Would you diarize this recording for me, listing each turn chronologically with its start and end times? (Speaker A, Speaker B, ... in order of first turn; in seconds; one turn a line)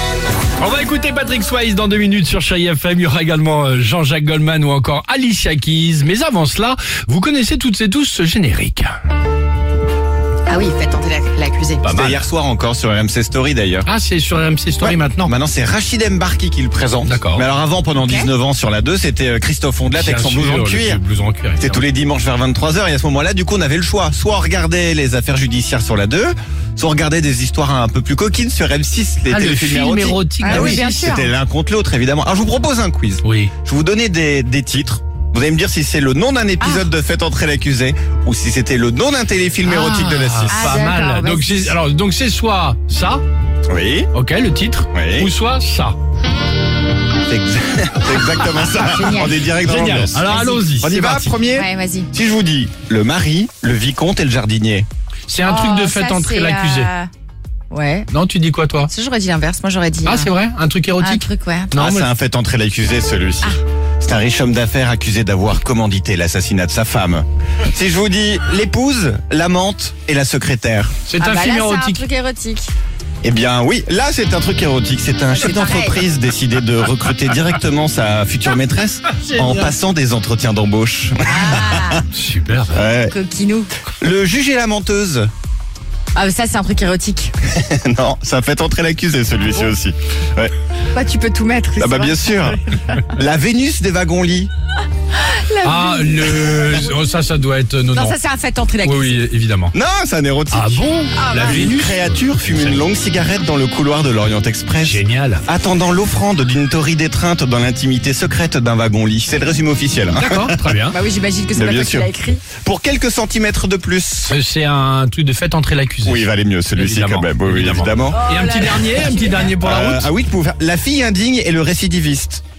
Speaker A: 0.6-9.0
Speaker B: 10.5-11.8
Speaker A: 11.8-12.2
Speaker C: 11.9-13.9
Speaker A: 13.8-15.3
Speaker C: 14.8-21.0
Speaker A: 17.0-17.4
Speaker B: 18.0-18.3
Speaker A: 19.9-21.8
Speaker C: 21.6-40.9
Speaker A: 29.3-30.9
Speaker B: 30.4-31.3
Speaker A: 33.2-33.5
Speaker B: 36.6-36.9
Speaker A: 39.6-43.2
Speaker B: 40.5-41.7
Speaker C: 43.7-44.1
Speaker A: 44.1-46.0
Speaker C: 44.9-45.3
Speaker C: 47.2-54.9
Speaker A: 48.1-48.6
Speaker B: 48.8-49.5
Speaker A: 49.5-51.4
Speaker B: 50.2-50.7
Speaker B: 51.5-52.1
Speaker A: 55.3-56.9
Speaker B: 55.4-57.1
Speaker B: 57.7-58.1
Speaker A: 58.1-58.9
Speaker B: 58.9-60.3
Speaker A: 60.0-62.1
Speaker B: 61.0-61.7
Speaker C: 61.8-71.0
Speaker A: 71.0-72.0
Speaker B: 71.2-72.7
Speaker C: 73.2-82.0
Speaker B: 75.3-76.0
Speaker A: 79.2-79.7
Speaker B: 81.2-82.1
Speaker A: 82.1-82.8
Speaker C: 82.7-83.1
Speaker B: 83.1-83.7
Speaker C: 84.0-85.3
Speaker B: 86.1-87.3
Speaker C: 87.5-90.5
Speaker B: 90.9-93.0
Speaker C: 91.8-94.5
Speaker B: 95.2-96.9
Speaker A: 95.6-98.2
Speaker B: 97.9-99.2
Speaker A: 98.8-99.7
Speaker C: 99.7-100.8
Speaker A: 100.5-102.9
Speaker B: 101.2-101.7
Speaker C: 101.4-110.7
Speaker A: 104.8-105.4
Speaker A: 110.2-111.0
Speaker B: 110.9-112.4
Speaker C: 111.5-112.1
Speaker C: 112.6-114.3
Speaker A: 114.3-120.1
Speaker C: 116.0-118.2
Speaker B: 118.1-119.5
Speaker C: 118.8-122.4